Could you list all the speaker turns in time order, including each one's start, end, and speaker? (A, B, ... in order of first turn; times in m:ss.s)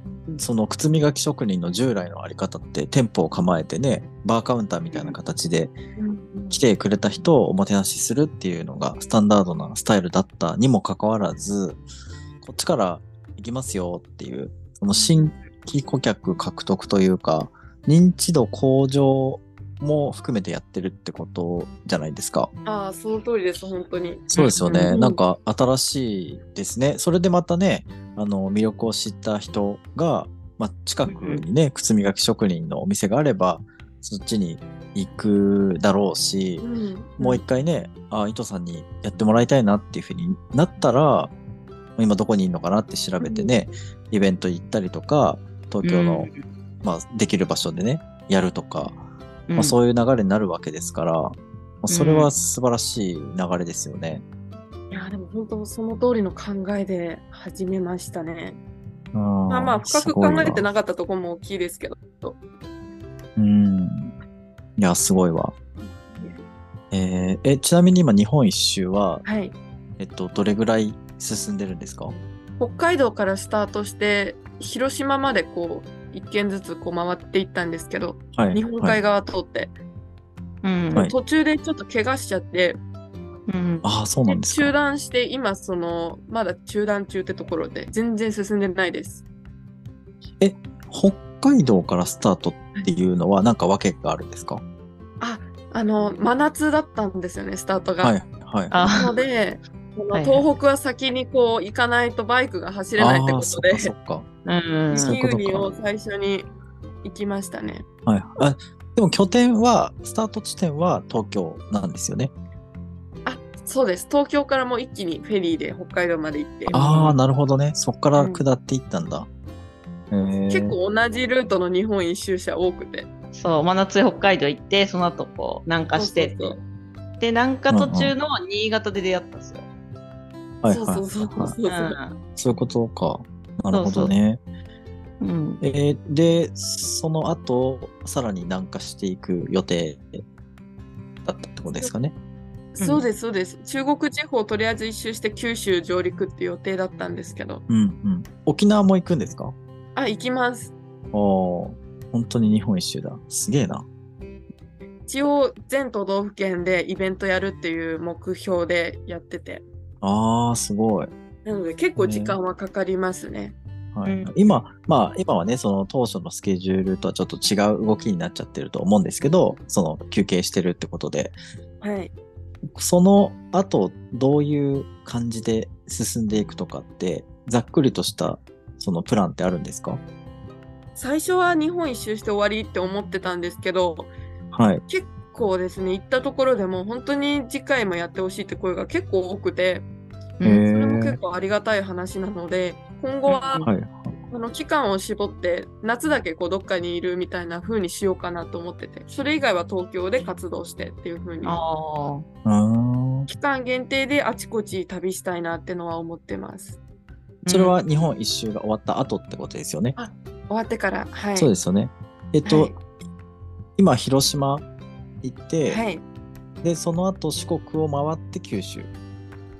0:00.4-0:05.7 A
0:06.0-0:06.6 B
0:06.5-0:11.8 A
0:12.4-0:22.5 A
0:14.9-0:15.3 B
0:22.6-0:25.2 B
0:24.3-0:36.6 A
0:24.4-0:24.6 C
0:31.1-0:31.4 C
0:36.6-0:37.4 B
0:37.2-0:41.3 A
0:42.0-0:46.3 A
0:43.2-0:43.6 B
0:45.8-0:46.4 C
0:46.8-0:49.0 A
0:49.5-0:49.8 C
0:49.6-0:54.2 A
0:51.9-0:52.3 C
0:54.9-0:58.6 B
0:59.1-1:00.6 A
0:59.5-1:02.4 B
1:03.4-1:04.1 A
1:04.8-1:05.6 A
1:05.8-1:06.4 B
1:06.9-1:09.2 A
1:09.2-1:09.6 B
1:10.0-1:12.1 A
1:12.6-1:19.7 B
1:18.4-1:19.0 A
1:20.6-1:21.1 C
1:21.0-1:22.8 B
1:23.5-1:23.8 C
1:23.8-1:24.8 A
1:24.3-1:29.2 B
1:30.4-1:34.6 A
1:35.2-1:38.2 B
1:38.0-1:38.8 A
1:38.7-1:39.1 C
1:38.8-1:43.9 B
1:40.1-1:40.4 C
1:43.0-1:44.3 A
1:44.4-1:45.1 C
1:44.9-1:46.5 B
1:45.0-1:45.7 A
1:47.0-1:47.8 B
1:48.1-1:52.3 A
1:53.3-1:56.8 B
1:56.7-1:57.2 C
1:56.7-1:59.3 A
1:58.2-1:58.4 B
2:00.1-2:00.8 A
2:00.5-2:03.1 B
2:03.3-2:06.6 C
2:06.0-2:06.6 B
2:07.2-2:09.7 C
2:07.7-2:08.1 A
2:10.6-2:11.6 A
2:10.7-2:12.0 B
2:11.7-2:12.2 C
2:12.4-2:14.4 A
2:13.7-2:14.1 C
2:15.2-2:15.6 C
2:15.6-2:20.2 A
2:21.2-2:22.1 A
2:22.8-2:27.6 B
2:22.8-2:23.0 C
2:27.7-2:29.6 A
2:30.0-2:30.7 B
2:31.1-2:33.9 A
2:35.1-2:39.6 B
2:40.0-2:41.1 A
2:41.4-2:43.6 B
2:42.0-2:42.4 A
2:44.0-2:51.4 A
2:44.1-2:44.3 C
2:51.8-2:52.1 B
2:52.7-3:00.0 A
3:01.0-3:04.1 B
3:04.5-3:04.8 A
3:04.9-3:09.9 B
3:10.4-3:10.6 C
3:10.4-3:11.2 A
3:10.7-3:13.6 B
3:13.3-3:13.7 C
3:13.6-3:14.2 A
3:14.3-3:21.6 B
3:21.4-3:22.2 C
3:22.4-3:23.3 A
3:23.3-3:26.8 B
3:27.4-3:27.8 C
3:27.5-3:30.0 A
3:30.0-3:31.5 B
3:31.4-3:32.8 A
3:32.4-3:32.8 B
3:33.8-3:34.7 A
3:35.2-3:35.8 A
3:35.7-3:36.0 B
3:36.6-3:38.9 A